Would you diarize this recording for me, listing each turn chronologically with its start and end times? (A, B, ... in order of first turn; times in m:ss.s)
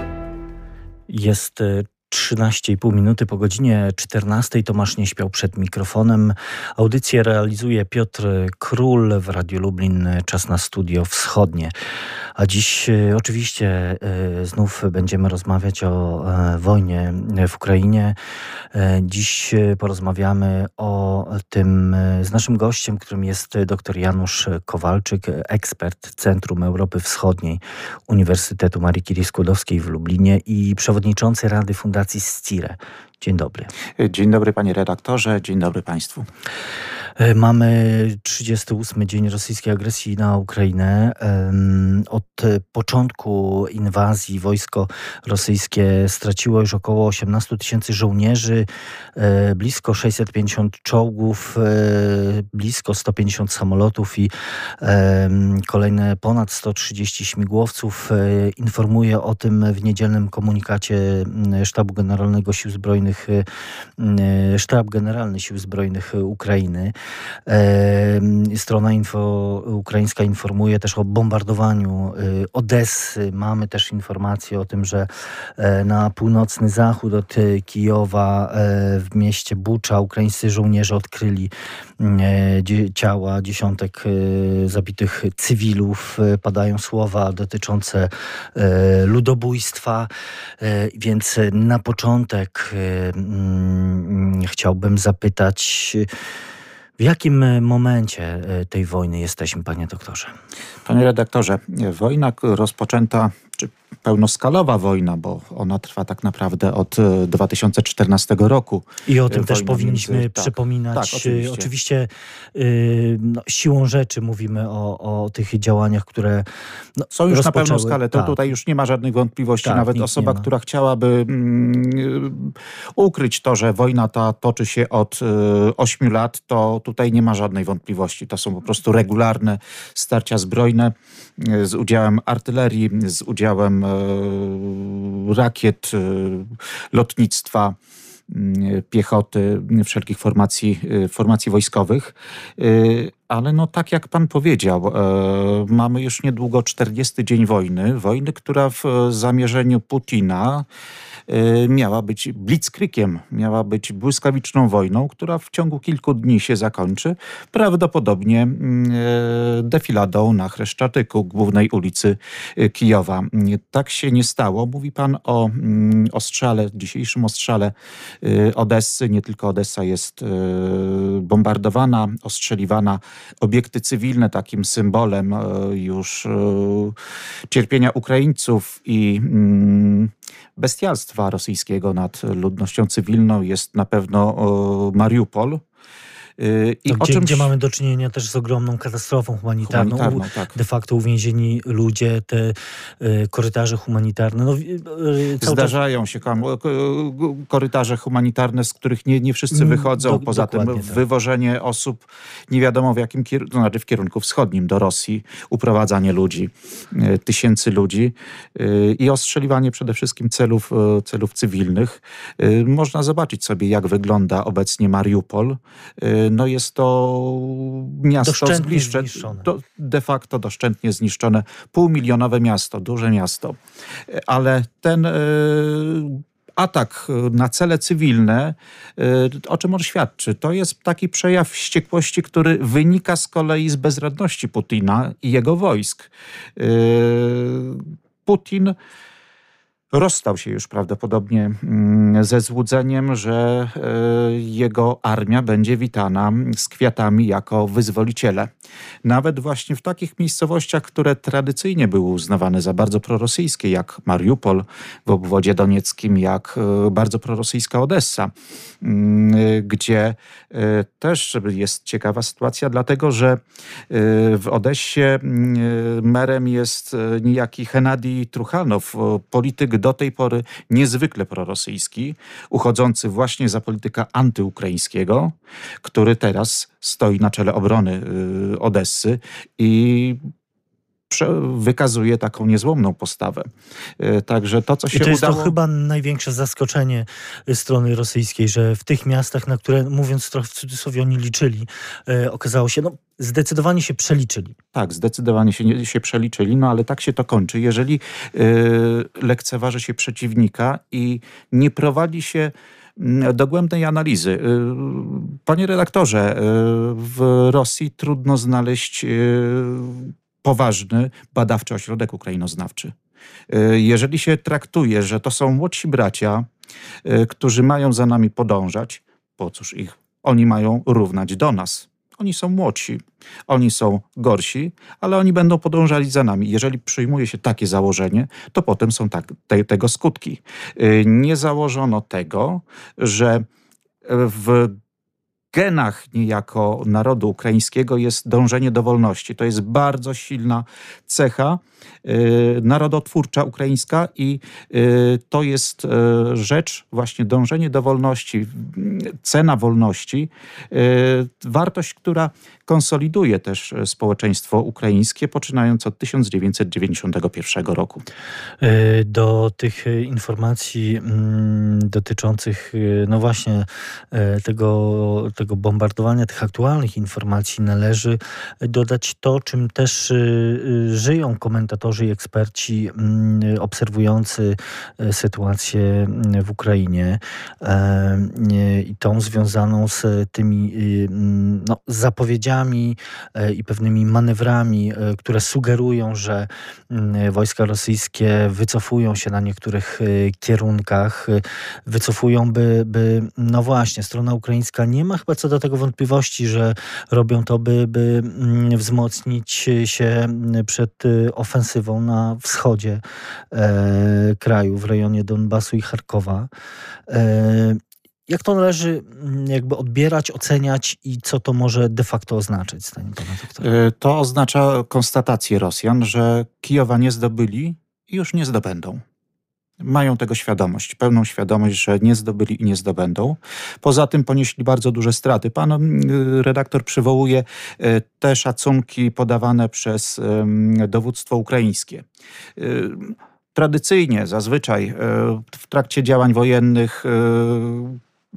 0:01.1-0:11.7 A
0:12.4-0:18.2 A
0:18.7-0:33.7 A
0:34.0-0:36.3 B
0:37.2-1:03.4 A
1:04.0-1:06.9 A
1:07.5-1:30.1 A
1:30.6-1:36.1 A
1:37.0-1:40.3 A
1:40.9-1:51.7 B
1:49.1-1:56.5 A
1:57.0-1:58.4 A
1:57.1-2:17.8 B
1:59.6-2:00.5 A
2:18.3-2:30.7 B
2:31.3-2:57.0 B
2:57.5-3:05.6 B
3:06.4-3:07.5 B
3:06.9-3:15.8 A
3:09.6-3:10.6 B
3:15.4-3:58.8 B
3:19.5-3:21.0 A
3:38.2-3:39.5 A
3:59.9-4:08.5 B
4:09.0-4:40.2 B
4:41.1-4:45.5 B
4:44.9-4:54.6 A
4:54.7-5:12.9 B
5:13.5-5:16.5 B
5:17.0-5:33.5 B
5:34.0-5:34.8 B
5:35.5-5:58.0 B
5:58.6-6:46.5 A
6:47.1-6:53.7 A
6:53.6-6:59.0 B
6:59.8-7:12.0 B
7:12.6-7:18.0 B